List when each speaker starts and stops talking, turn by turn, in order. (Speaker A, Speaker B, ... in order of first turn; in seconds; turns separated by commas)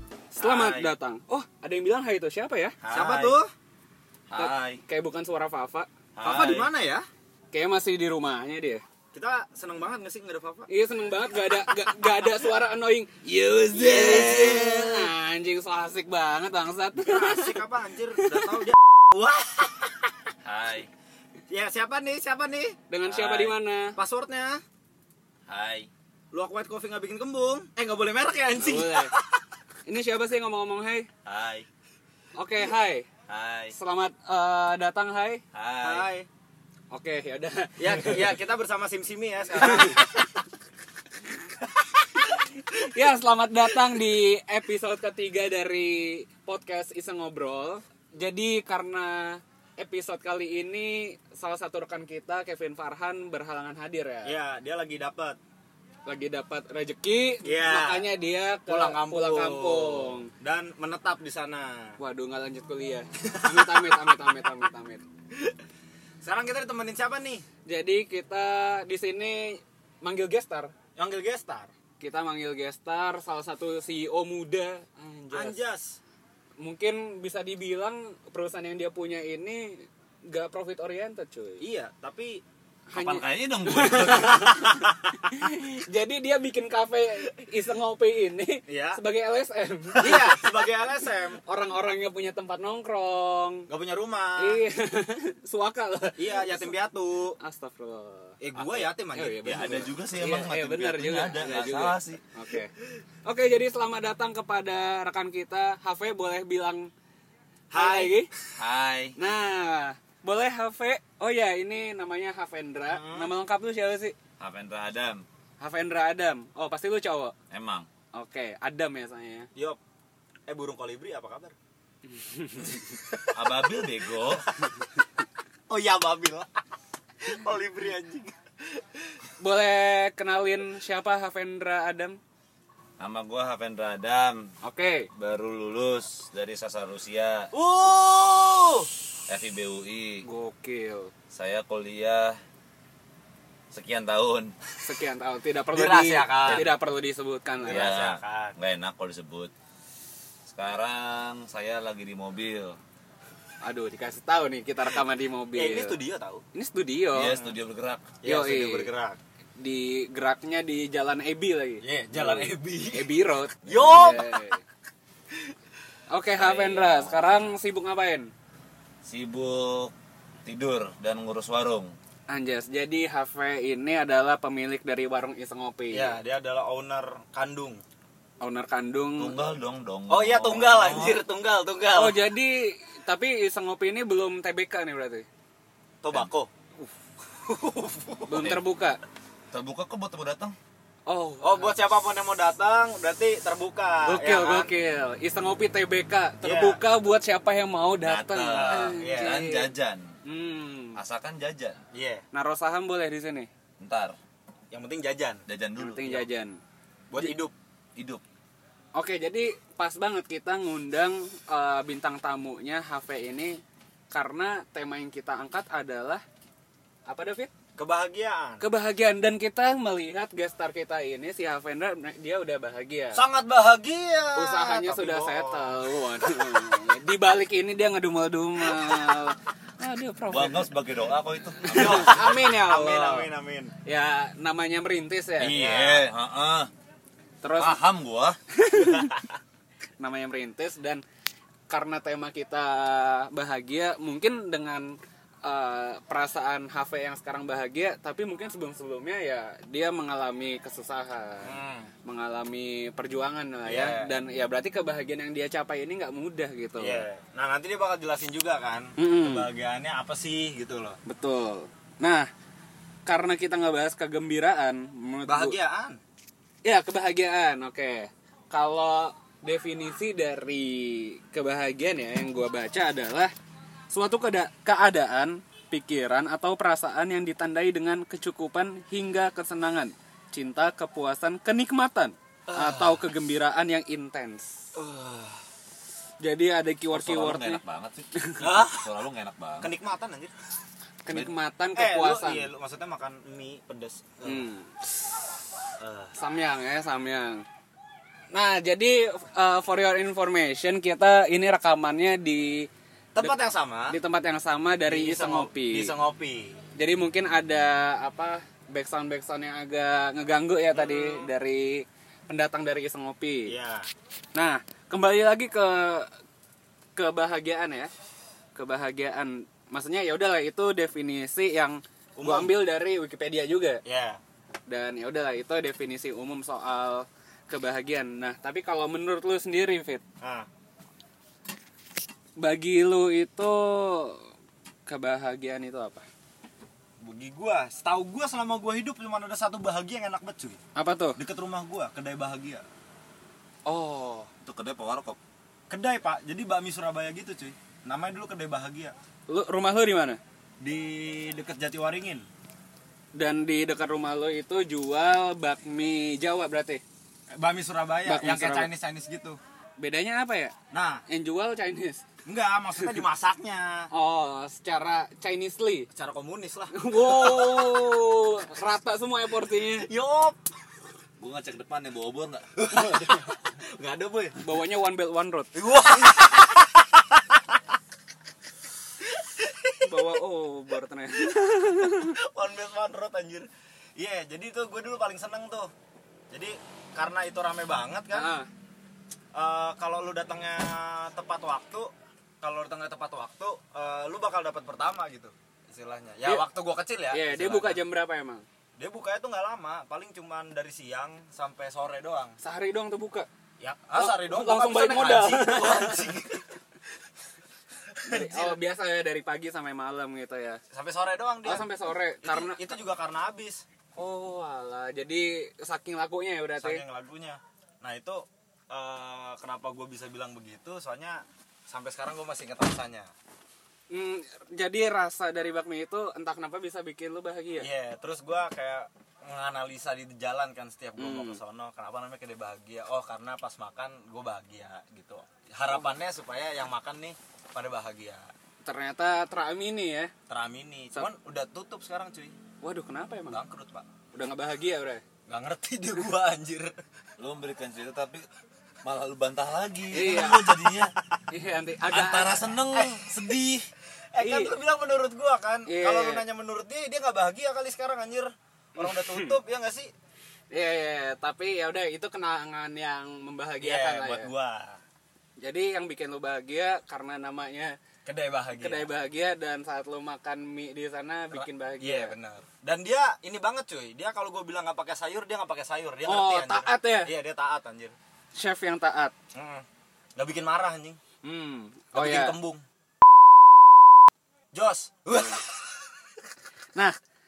Speaker A: 0.3-3.4, Speaker B: 0.4-0.9, Speaker B: 2.8-3.5, Speaker C: 4.3-4.8, Speaker A: 4.4-5.9, Speaker B: 6.2-7.0, Speaker C: 6.2-6.7, Speaker A: 7.5-8.8, Speaker B: 9.1-10.7, Speaker A: 10.7-13.1, Speaker B: 11.8-12.1, Speaker C: 13.2-15.1, Speaker B: 13.8-15.0, Speaker A: 13.9-17.6, Speaker B: 17.0-20.1, Speaker C: 20.4-20.9, Speaker B: 21.5-22.8, Speaker A: 22.9-24.0, Speaker C: 23.1-23.5, Speaker B: 23.9-24.6, Speaker C: 25.5-25.9, Speaker B: 26.3-29.4, Speaker A: 28.6-29.1, Speaker A: 29.9-31.1, Speaker C: 31.2-31.7, Speaker A: 32.4-33.1, Speaker C: 33.3-33.7, Speaker A: 33.7-35.4, Speaker C: 35.5-36.1, Speaker B: 35.8-36.3, Speaker A: 36.9-38.3, Speaker B: 37.8-40.2, Speaker A: 39.6-40.2, Speaker A: 42.2-54.3, Speaker B: 54.2-55.4, Speaker A: 56.1-60.3, Speaker B: 57.4-58.1, Speaker B: 58.7-62.0, Speaker A: 62.0-65.0, Speaker B: 63.3-64.0, Speaker B: 66.2-67.4, Speaker A: 67.7-70.7, Speaker B: 71.0-71.7, Speaker A: 72.0-75.6, Speaker B: 75.3-76.0, Speaker A: 76.6-81.6, Speaker B: 81.6-82.4, Speaker A: 82.9-90.7, Speaker C: 82.9-84.5, Speaker B: 84.6-85.1, Speaker B: 88.7-89.0, Speaker B: 90.0-91.4, Speaker A: 91.5-93.7, Speaker B: 93.7-94.6, Speaker A: 94.4-96.7, Speaker B: 96.2-97.4, Speaker A: 97.4-102.7, Speaker B: 98.4-99.9, Speaker C: 99.4-102.2, Speaker A: 103.2-106.9, Speaker B: 107.7-108.5, Speaker A: 107.7-108.3, Speaker C: 108.6-109.2, Speaker A: 109.2-114.1, Speaker B: 112.9-113.3, Speaker C: 114.4-115.2, Speaker A: 115.6-117.3, Speaker C: 117.5-117.9, Speaker A: 118.1-119.5, Speaker B: 120.5-121.5, Speaker A: 122.1-122.8, Speaker B: 123.1-123.5, Speaker C: 123.3-124.5, Speaker B: 124.2-124.8, Speaker B: 125.7-126.5, Speaker B: 127.2-129.2, Speaker A: 129.4-132.2, Speaker C: 133.0-134.5, Speaker A: 134.6-135.1, Speaker C: 135.1-137.5, Speaker B: 137.5-138.9, Speaker C: 139.3-140.2, Speaker A: 140.2-141.1, Speaker C: 141.3-142.4, Speaker C: 143.7-144.5, Speaker A: 144.8-147.9, Speaker B: 145.7-146.7, Speaker B: 147.6-148.5, Speaker C: 147.7-149.5, Speaker C: 150.5-152.8, Speaker A: 153.6-155.9, Speaker B: 155.5-156.4, Speaker A: 156.5-157.5, Speaker C: 157.1-158.2, Speaker B: 158.2-159.2, Speaker A: 158.2-158.9, Speaker A: 159.6-164.6, Speaker B: 161.8-163.1, Speaker B: 163.7-164.4, Speaker A: 166.1-168.3, Speaker C: 166.3-167.4, Speaker C: 169.0-169.9, Speaker C: 170.4-171.9, Speaker A: 172.3-176.2, Speaker B: 175.9-177.8, Speaker A: 178.4-179.3, Speaker C: 179.2-181.2, Speaker B: 180.1-182.2, Speaker A: 181.9-185.2, Speaker B: 186.0-186.5, Speaker B: 187.4-188.4, Speaker A: 188.2-189.0, Speaker C: 188.3-188.6, Speaker C: 189.5-190.6, Speaker A: 191.1-191.8, Speaker B: 191.4-194.7, Speaker A: 194.0-199.7, Speaker B: 196.4-196.8, Speaker C: 198.0-200.2, Speaker B: 198.4-199.4, Speaker A: 200.2-201.0, Speaker C: 200.9-201.8, Speaker B: 201.9-202.2, Speaker A: 202.3-203.5, Speaker C: 203.8-204.2, Speaker B: 204.7-205.4, Speaker C: 205.5-206.2, Speaker A: 205.8-206.6, Speaker B: 207.1-207.5, Speaker C: 207.9-208.2, Speaker A: 209.0-213.6, Speaker A: 214.1-216.2, Speaker A: 217.1-217.5, Speaker B: 217.8-218.6, Speaker A: 218.6-223.2, Speaker B: 223.1-226.7, Speaker A: 224.3-230.7, Speaker B: 228.7-229.1, Speaker C: 230.3-232.3, Speaker A: 231.6-233.3, Speaker B: 231.7-233.7, Speaker A: 233.8-235.6, Speaker B: 235.4-236.1, Speaker C: 235.4-236.7, Speaker A: 237.4-237.8, Speaker C: 237.6-238.4, Speaker A: 238.5-239.2, Speaker B: 238.7-239.3, Speaker A: 240.0-241.0, Speaker A: 241.7-257.1, Speaker B: 251.4-251.9, Speaker B: 253.7-254.1, Speaker B: 256.8-261.0, Speaker A: 259.0-259.5, Speaker A: 261.1-262.3, Speaker A: 263.1-265.6, Speaker B: 265.2-266.0, Speaker A: 266.6-273.3, Speaker A: 273.9-284.6, Speaker B: 282.5-283.0, Speaker B: 284.8-285.4, Speaker A: 286.2-287.6, Speaker C: 286.9-289.7, Speaker A: 288.1-288.5, Speaker B: 288.4-288.9, Speaker B: 289.6-290.3, Speaker A: 291.0-292.5, Speaker B: 291.8-294.5, Speaker A: 294.2-294.7, Speaker B: 295.8-296.1, Speaker A: 296.1-297.4, Speaker A: 298.3-302.7, Speaker B: 303.1-303.9, Speaker A: 303.9-305.9, Speaker B: 304.9-306.6, Speaker A: 306.8-313.5, Speaker B: 310.7-311.3, Speaker B: 313.5-313.9, Speaker A: 314.3-316.1, Speaker A: 316.9-317.9, Speaker A: 318.5-323.8, Speaker B: 322.1-322.5, Speaker B: 323.8-324.2, Speaker A: 324.7-330.0, Speaker B: 330.2-330.5, Speaker A: 332.4-334.3, Speaker A: 334.9-336.1, Speaker B: 337.0-340.6, Speaker A: 340.7-341.2, Speaker B: 341.2-342.6, Speaker A: 343.6-344.3, Speaker C: 344.4-345.2, Speaker B: 345.7-348.9, Speaker A: 349.3-350.2, Speaker B: 350.6-352.2, Speaker A: 353.1-356.8, Speaker B: 357.4-359.4, Speaker A: 358.1-358.7, Speaker A: 359.8-360.5, Speaker B: 360.7-361.0, Speaker A: 361.1-362.0, Speaker B: 362.2-363.9, Speaker A: 363.9-365.9, Speaker B: 365.9-367.8, Speaker A: 366.7-369.9, Speaker B: 369.8-370.4, Speaker C: 371.2-372.5, Speaker B: 372.6-374.4, Speaker A: 374.4-375.5, Speaker B: 375.5-377.6, Speaker B: 379.0-380.1, Speaker A: 379.8-382.1, Speaker B: 381.2-385.7, Speaker B: 386.3-388.3, Speaker A: 388.1-388.5, Speaker B: 389.3-391.9, Speaker B: 392.4-397.8, Speaker A: 397.1-398.4, Speaker B: 398.8-402.4, Speaker A: 402.4-403.3, Speaker B: 403.6-406.5, Speaker A: 403.9-406.2, Speaker B: 407.9-408.6, Speaker A: 408.1-410.6, Speaker B: 410.7-411.7, Speaker A: 411.4-412.6, Speaker B: 412.2-413.6, Speaker A: 414.0-416.8, Speaker B: 416.6-423.1, Speaker A: 423.9-427.7, Speaker B: 427.6-438.3, Speaker A: 431.0-431.4, Speaker A: 438.6-440.1, Speaker B: 440.3-442.4, Speaker A: 442.6-443.4, Speaker B: 443.3-443.9, Speaker A: 444.1-445.0, Speaker B: 445.3-446.8, Speaker C: 447.2-448.2, Speaker C: 448.8-450.9, Speaker A: 449.9-450.6, Speaker A: 451.3-452.5, Speaker C: 451.9-453.6, Speaker B: 452.7-453.6, Speaker B: 454.1-459.9, Speaker A: 454.2-454.5, Speaker A: 455.7-456.2, Speaker A: 458.8-459.4, Speaker A: 460.5-464.3, Speaker B: 463.6-464.8, Speaker A: 465.4-467.8, Speaker B: 468.0-468.9, Speaker A: 468.6-472.1, Speaker B: 471.3-477.9, Speaker A: 476.1-477.1, Speaker A: 478.4-479.1, Speaker B: 479.3-479.6, Speaker B: 480.1-481.0, Speaker A: 481.2-482.4, Speaker B: 481.9-482.6, Speaker B: 484.5-485.6, Speaker A: 485.1-485.4